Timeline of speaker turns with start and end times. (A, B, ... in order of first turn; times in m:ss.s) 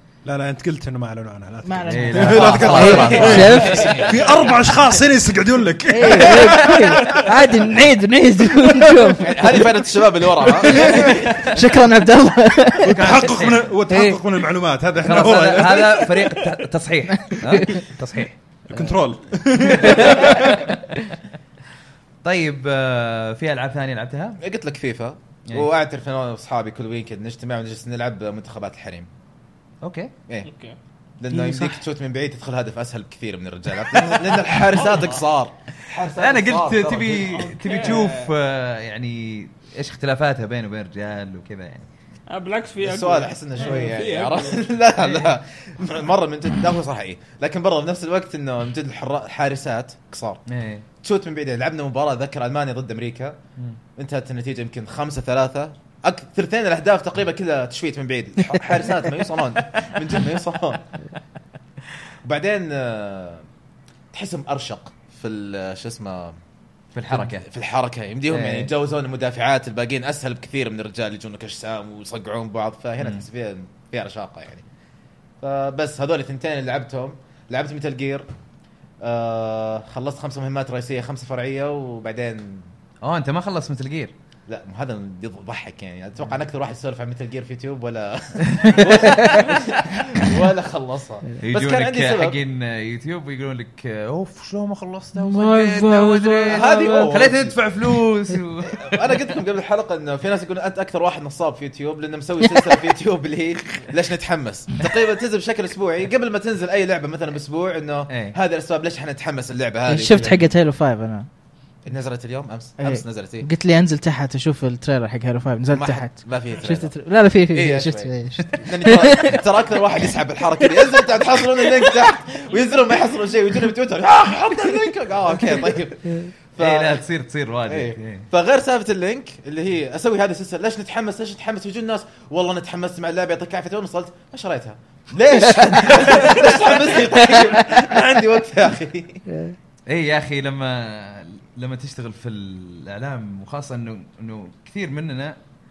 0:00.2-0:07.3 A
0:01.6-0:04.0 B
0:01.9-0:04.0 C
0:02.2-0:04.2 D
0:05.9-0:09.8 B
0:09.2-0:11.2 D
0:10.6-0:13.2 B
0:10.8-0:11.2 A
0:12.8-0:16.3 A
0:12.9-0:13.7 C
0:13.9-0:14.2 B
0:15.0-0:18.9 C
0:18.7-0:20.7 A
0:19.5-0:21.2 C
0:22.2-0:24.4 C
0:24.4-0:29.1 D
0:29.8-0:30.1 C
0:30.4-0:30.8 E
0:31.2-0:37.9 D
0:31.3-0:31.8 C
0:33.8-0:34.6 C
0:34.8-0:35.2 E
0:36.0-0:41.9 C
0:37.3-0:38.3 E
0:42.3-0:44.7 E
0:42.8-0:50.4 D
0:45.0-0:45.4 C
0:50.5-0:50.8 C
0:51.0-0:53.4 D
0:54.0-1:00.9 D
0:59.4-1:00.2 C
1:02.2-1:03.4 D
1:04.1-1:06.4 D
1:06.9-1:07.4 C
1:07.1-1:14.6 D
1:08.3-1:08.7 C
1:15.4-1:18.3 D
1:19.0-1:22.7 D
1:23.0-1:24.1 C
1:24.5-1:32.4 D
1:28.5-1:29.7 C
1:31.4-1:39.3 C
1:35.1-1:37.1 B
1:36.5-1:37.6 D
1:38.8-1:50.5 D
1:48.1-1:48.4 C
1:49.9-1:51.3 B
1:51.8-1:53.5 D
1:52.8-1:59.4 B
1:55.7-2:07.0 D
2:06.6-2:08.3 C
2:07.7-2:19.2 D
2:16.1-2:16.4 C
2:19.9-2:25.4 C